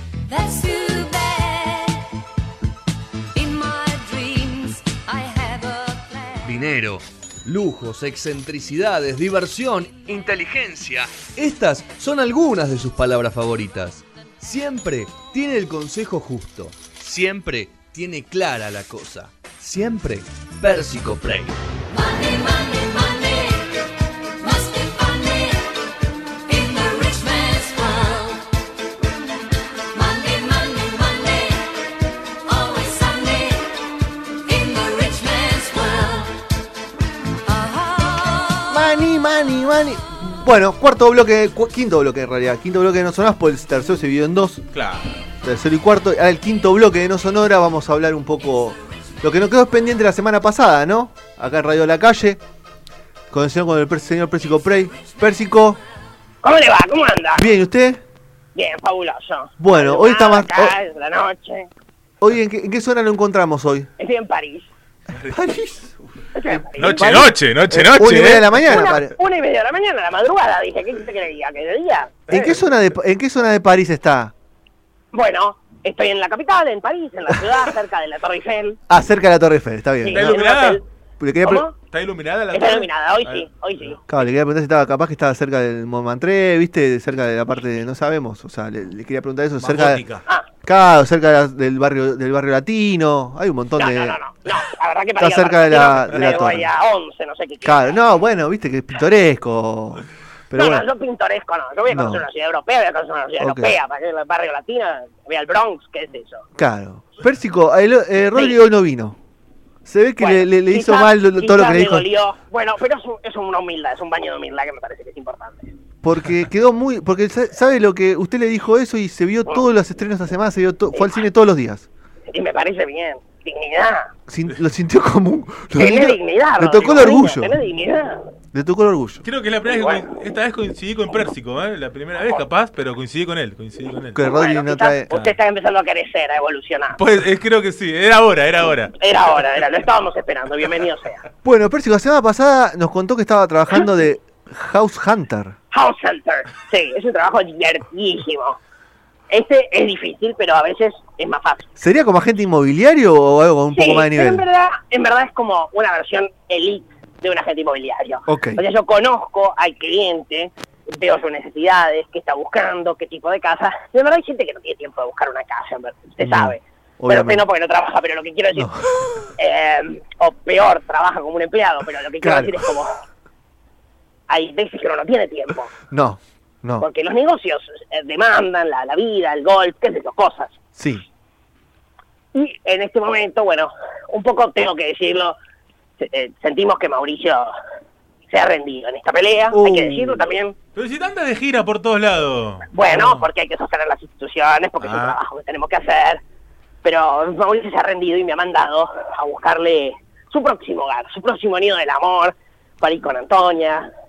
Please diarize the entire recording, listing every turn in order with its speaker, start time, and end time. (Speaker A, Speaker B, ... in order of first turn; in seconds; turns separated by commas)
Speaker A: 0.3-2.0, Speaker A: 3.4-6.6, Speaker B: 6.5-21.6, Speaker A: 21.9-23.8, Speaker A: 24.4-25.8, Speaker A: 26.5-28.5, Speaker A: 29.9-31.8, Speaker A: 32.5-36.3, Speaker A: 37.5-38.7, Speaker C: 38.7-44.6, Speaker D: 44.7-45.2, Speaker C: 45.4-52.4, Speaker C: 53.3-55.8, Speaker E: 56.4-57.5, Speaker C: 57.3-58.0, Speaker E: 58.5-61.7, Speaker C: 59.6-60.8, Speaker C: 62.2-63.9, Speaker E: 64.0-64.7, Speaker C: 65.2-65.9, Speaker E: 66.3-67.3, Speaker C: 66.5-69.2, Speaker D: 66.8-68.6, Speaker E: 68.6-72.2, Speaker C: 72.3-74.3, Speaker E: 75.1-78.8, Speaker C: 78.9-80.5, Speaker E: 80.0-80.8, Speaker D: 80.1-80.8, Speaker C: 81.2-81.7, Speaker E: 81.4-81.8, Speaker D: 81.9-83.9, Speaker E: 82.5-84.0, Speaker C: 84.1-90.0, Speaker D: 89.6-90.2, Speaker C: 90.6-94.2, Speaker E: 93.8-98.0, Speaker C: 95.2-96.7, Speaker C: 97.6-100.9, Speaker E: 100.5-106.4, Speaker C: 101.9-102.2, Speaker C: 103.4-103.8, Speaker C: 106.6-109.2, Speaker E: 108.3-108.6, Speaker C: 109.8-112.1, Speaker E: 110.2-115.7, Speaker C: 116.0-121.9, Speaker E: 120.9-121.2, Speaker E: 122.3-124.1, Speaker C: 124.3-127.6, Speaker E: 125.8-128.2, Speaker C: 128.5-129.2, Speaker D: 129.2-134.3, Speaker E: 129.7-130.0, Speaker C: 134.1-135.3, Speaker E: 134.2-137.0, Speaker D: 136.9-138.9, Speaker E: 139.0-141.2, Speaker C: 141.4-145.5, Speaker E: 145.7-148.6, Speaker E: 149.3-151.7, Speaker C: 151.8-154.4, Speaker E: 153.7-168.7, Speaker C: 158.3-158.6, Speaker C: 166.2-167.4, Speaker C: 168.5-168.9, Speaker E: 169.3-172.9, Speaker C: 172.2-172.6, Speaker E: 174.3-175.7, Speaker C: 175.9-176.9, Speaker E: 176.8-180.5, Speaker C: 180.8-181.0, Speaker E: 182.3-185.3, Speaker E: 186.0-187.5, Speaker E: 188.3-190.6, Speaker C: 189.5-190.2, Speaker D: 190.8-193.3, Speaker E: 192.7-196.2, Speaker D: 194.8-195.2, Speaker E: 196.8-203.9